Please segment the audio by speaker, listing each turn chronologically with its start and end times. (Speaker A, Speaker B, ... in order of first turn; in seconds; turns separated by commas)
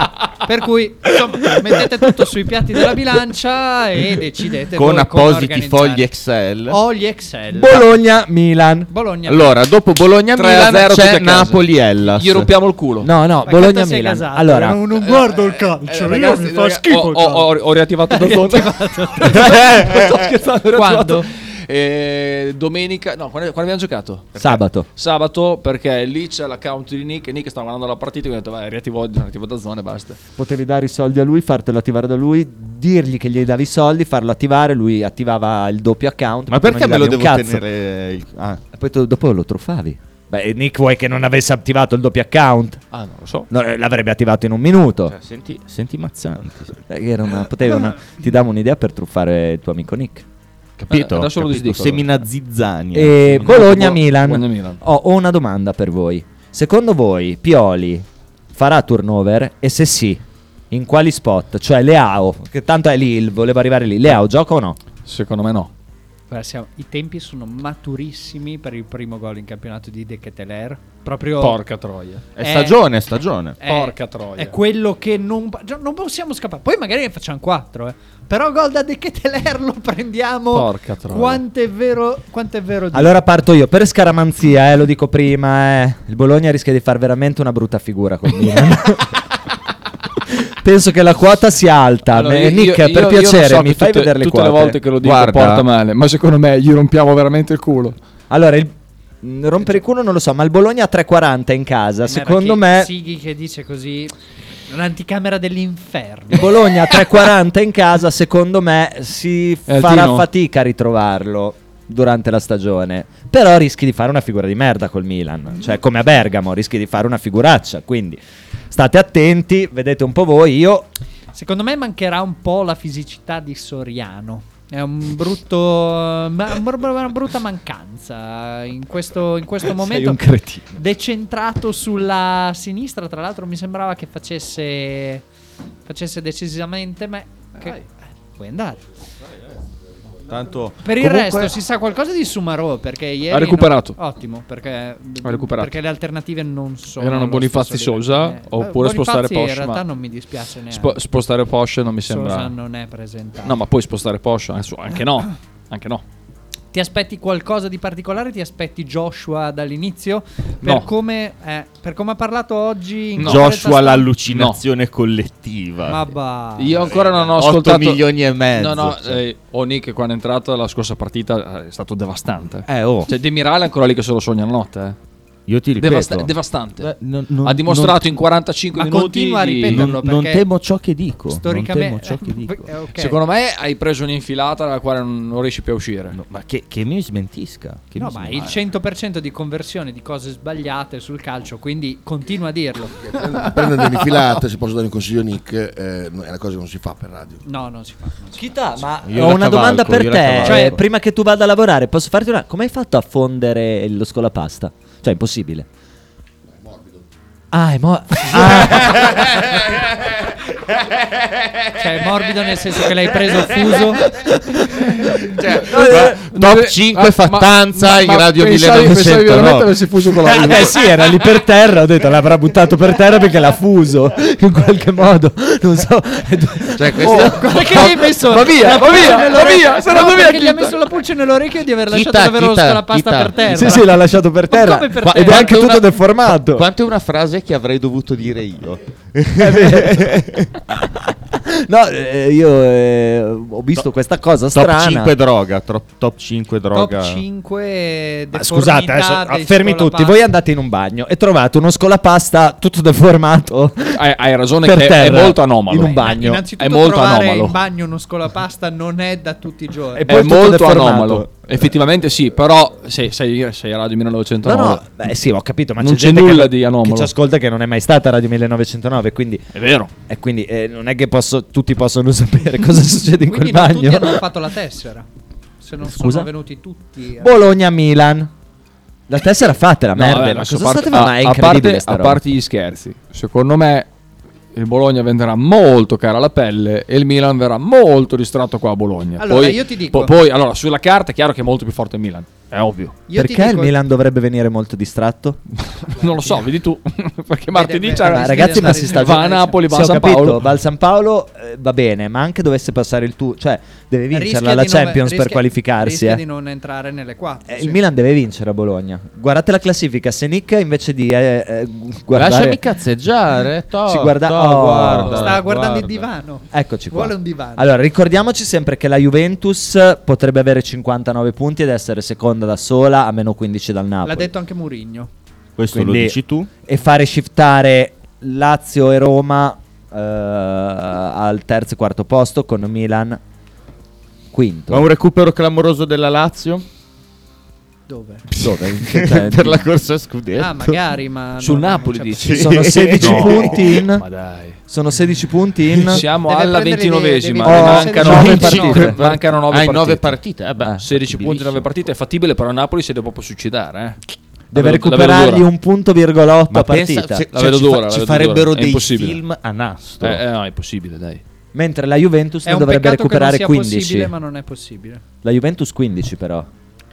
Speaker A: 0.4-6.0, Speaker B: 4.8-6.8, Speaker A: 6.7-7.8, Speaker C: 7.5-8.9, Speaker A: 8.9-9.5, Speaker B: 9.3-12.5, Speaker D: 10.3-13.1, Speaker C: 13.0-14.8, Speaker A: 13.4-17.6, Speaker D: 14.9-24.4, Speaker A: 18.1-19.7, Speaker B: 19.5-19.9, Speaker A: 20.7-21.3, Speaker C: 24.4-24.9, Speaker D: 24.9-30.2, Speaker C: 30.4-37.6, Speaker B: 36.5-38.6, Speaker C: 38.7-42.8, Speaker D: 42.9-43.5, Speaker C: 43.5-45.1, Speaker B: 45.1-46.8, Speaker C: 46.9-50.2, Speaker B: 50.8-53.7, Speaker D: 50.9-52.1, Speaker C: 52.9-64.8, Speaker D: 53.5-54.8, Speaker D: 65.0-65.7, Speaker A: 66.3-71.6, Speaker D: 71.4-72.3, Speaker B: 72.3-73.6, Speaker A: 72.4-72.8, Speaker A: 73.6-83.2, Speaker D: 73.6-74.5, Speaker D: 80.5-81.4, Speaker C: 82.9-89.1, Speaker C: 90.3-94.8, Speaker D: 92.1-98.0, Speaker B: 95.0-95.6, Speaker C: 98.3-102.9, Speaker A: 102.1-104.1, Speaker A: 104.7-106.5, Speaker C: 106.3-118.2, Speaker D: 109.7-110.3, Speaker C: 118.7-120.9, Speaker A: 121.3-130.2, Speaker C: 129.7-130.7, Speaker A: 130.7-135.2, Speaker A: 135.8-137.8, Speaker A: 138.4-138.8, Speaker B: 140.3-141.5, Speaker A: 140.8-151.0, Speaker D: 143.3-143.9, Speaker D: 145.2-145.8, Speaker D: 147.0-149.8, Speaker D: 150.7-152.5, Speaker A: 152.1-153.6, Speaker D: 153.4-156.0, Speaker A: 156.7-164.1, Speaker D: 160.6-160.9, Speaker D: 163.2-163.5, Speaker B: 163.2-166.0, Speaker D: 164.3-164.6, Speaker A: 165.8-166.9, Speaker D: 166.6-175.0, Speaker B: 166.9-169.2, Speaker B: 172.7-173.1, Speaker B: 175.5-178.1, Speaker D: 175.8-179.8, Speaker A: 178.7-180.4, Speaker B: 179.7-182.7, Speaker A: 181.3-183.2, Speaker D: 182.9-186.2, Speaker B: 186.1-188.5, Speaker A: 188.0-193.1, Speaker E: 193.1-197.4, Speaker A: 197.4-198.4, Speaker C: 198.3-205.7, Speaker B: 199.1-200.8, Speaker A: 200.4-200.8, Speaker C: 207.5-209.4, Speaker A: 211.8-214.0, Speaker B: 215.3-220.3, Speaker C: 215.7-216.2, Speaker D: 215.8-220.8, Speaker C: 220.3-227.4, Speaker B: 226.8-227.9, Speaker A: 227.1-233.9, Speaker D: 227.5-230.8, Speaker B: 231.9-233.8, Speaker C: 233.5-236.7, Speaker A: 234.5-235.5, Speaker B: 235.0-240.5, Speaker C: 239.4-245.1, Speaker B: 244.5-247.2, Speaker A: 246.7-250.2, Speaker C: 248.3-254.1, Speaker D: 253.9-257.6, Speaker C: 254.6-256.4, Speaker A: 255.9-260.2, Speaker C: 260.0-261.3, Speaker D: 260.1-264.8, Speaker C: 264.4-269.4, Speaker D: 265.8-267.1, Speaker D: 269.5-269.9, Speaker C: 270.1-274.2, Speaker A: 273.2-275.1, Speaker A: 275.6-277.4, Speaker C: 275.8-276.3, Speaker C: 277.2-278.3, Speaker C: 279.1-282.2, Speaker D: 279.9-283.9, Speaker D: 284.5-293.0, Speaker A: 289.2-290.1, Speaker A: 293.1-293.7, Speaker C: 293.1-295.4, Speaker D: 295.8-300.4, Speaker A: 297.5-299.6, Speaker C: 298.1-306.2, Speaker A: 304.1-307.8, Speaker C: 307.5-312.6, Speaker B: 312.1-316.1, Speaker C: 313.9-315.3, Speaker A: 315.1-317.7, Speaker C: 316.5-324.3, Speaker A: 324.0-325.1, Speaker B: 325.6-326.5, Speaker C: 325.7-333.2, Speaker C: 334.3-334.9, Speaker B: 334.7-336.6, Speaker A: 337.9-338.3, Speaker C: 338.4-339.7, Speaker B: 338.4-340.8, Speaker A: 340.4-342.3, Speaker D: 341.4-342.5, Speaker B: 342.2-343.8, Speaker C: 342.3-344.1, Speaker D: 343.0-344.6, Speaker C: 344.7-346.0, Speaker D: 345.9-354.0, Speaker A: 346.1-348.9, Speaker C: 347.4-349.0, Speaker B: 348.5-351.7, Speaker C: 354.5-357.2, Speaker D: 354.5-355.5, Speaker B: 356.5-360.2, Speaker D: 357.3-359.2, Speaker D: 360.0-361.2, Speaker C: 361.5-364.1, Speaker A: 362.4-365.0, Speaker C: 365.2-366.5